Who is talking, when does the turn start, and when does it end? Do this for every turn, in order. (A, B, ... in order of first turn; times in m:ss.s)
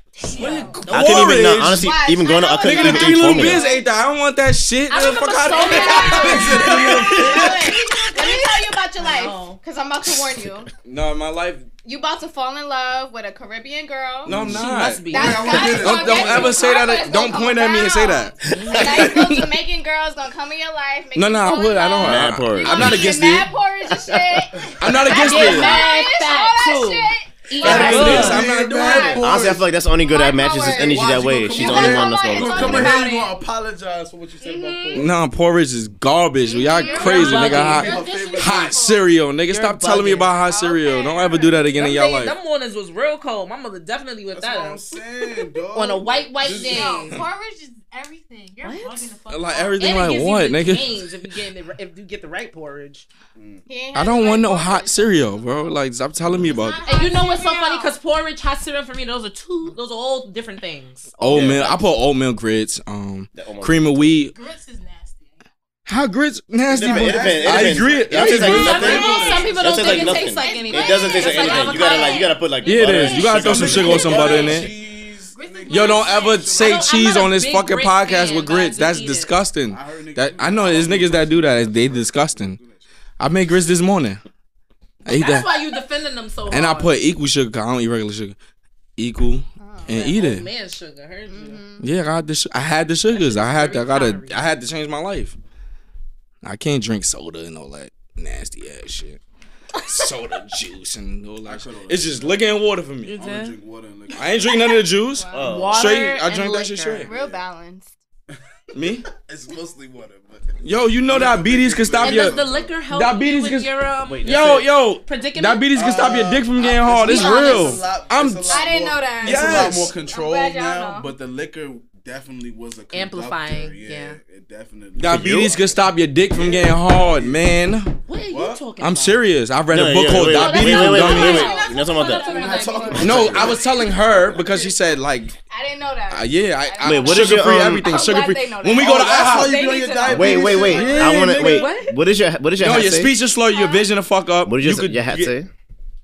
0:00.2-0:00.7 A
0:00.3-0:01.4 B
0:00.4-0:01.9 C
0:00.9-0:03.6 D
0:01.7-0:03.8 A
0:02.6-0:07.8 C
0:04.9-0:06.8 B
0:05.4-0:06.4 A
0:06.2-0:07.6 E
0:07.1-0:10.7 A
0:08.1-0:09.6 B
0:10.8-0:11.7 C
0:11.8-0:14.3 A
0:14.3-0:19.5 C
0:14.3-0:16.7 E
0:14.3-0:15.7 B
0:15.1-0:29.4 A
0:18.5-0:19.2 B
0:21.1-0:23.5 C
0:22.0-0:23.1 D
0:23.9-0:24.4 D
0:24.8-0:25.9 C
0:25.1-0:28.4 B
0:27.6-0:28.4 D
0:27.6-0:29.3 C
0:27.6-0:29.6 E
0:29.2-0:33.0 D
0:29.9-0:33.3 A
0:30.6-0:35.2 E
0:32.7-0:33.2 B
0:34.4-0:35.0 A
0:34.5-0:35.1 B
0:34.9-0:42.3 C
0:36.5-0:37.2 A
0:36.5-0:39.1 F
0:36.9-0:38.0 B
0:37.3-0:38.7 E
0:39.5-0:44.8 B
0:44.3-0:47.1 E
0:45.7-0:47.2 B
0:46.4-0:49.9 F
0:48.6-0:49.2 B
0:49.3-0:51.0 C
0:49.8-0:53.1 B
0:53.4-0:53.7 E
0:53.7-0:55.7 A
0:53.9-0:56.8 C
0:56.2-0:56.5 E
0:56.4-0:57.9 F
0:56.9-1:01.4 B
0:56.9-0:57.3 A
1:01.2-1:04.4 C
1:01.3-1:01.7 D
1:01.4-1:01.7 E
1:03.4-1:04.1 D
1:04.3-1:05.4 F
1:05.9-1:09.1 C
1:06.7-1:14.2 D
1:06.7-1:10.3 E
1:08.4-1:13.0 B
1:10.1-1:12.3 A
1:10.4-1:12.1 F
1:12.6-1:14.7 C
1:13.4-1:17.0 E
1:13.6-1:14.7 B
1:14.0-1:14.4 F
1:15.3-1:16.6 F
1:15.7-1:22.6 C
1:16.5-1:19.4 B
1:19.6-1:22.9 E
1:23.2-1:24.2 C
1:25.0-1:25.5 C
1:25.1-1:26.9 B
1:26.5-1:28.4 C
1:29.0-1:30.5 C
1:29.6-1:29.9 A
1:29.9-1:31.6 B
1:31.3-1:31.9 A
1:31.8-1:35.4 C
1:33.2-1:34.4 B
1:36.4-1:39.2 C
1:39.8-1:43.1 C
1:41.4-1:44.5 E
1:43.0-1:43.6 B
1:44.2-1:47.1 C
1:45.1-1:46.1 A
1:45.3-1:45.9 D
1:45.4-1:47.1 B
1:47.1-1:47.9 A
1:47.1-1:47.4 E
1:48.7-1:49.1 C
1:49.1-1:52.7 E
1:50.6-1:52.4 C
1:52.0-1:54.4 B
1:52.9-1:53.7 C
1:54.1-1:54.7 D
1:54.2-1:58.7 C
1:55.0-1:55.7 B
1:55.7-2:05.8 E
1:56.9-1:57.8 B
1:58.4-2:01.1 A
1:59.2-1:59.9 C
2:02.9-2:04.2 B
2:05.0-2:07.9 C
2:05.0-2:05.6 D
2:06.3-2:07.5 E
2:08.1-2:09.2 B
2:08.3-2:08.6 E
2:08.8-2:11.5 C
2:09.7-2:12.4 D
2:10.1-2:13.4 B
2:11.1-2:13.0 F
2:11.7-2:13.1 A
2:12.3-2:13.7 E
2:13.0-2:15.4 C
2:13.7-2:14.7 A
2:15.5-2:19.7 A
2:16.1-2:19.6 C
2:16.8-2:17.8 D
2:17.8-2:22.0 B
2:18.8-2:21.7 E
2:20.1-2:23.2 D
2:22.6-2:25.3 C
2:23.5-2:23.9 A
2:24.4-2:25.5 D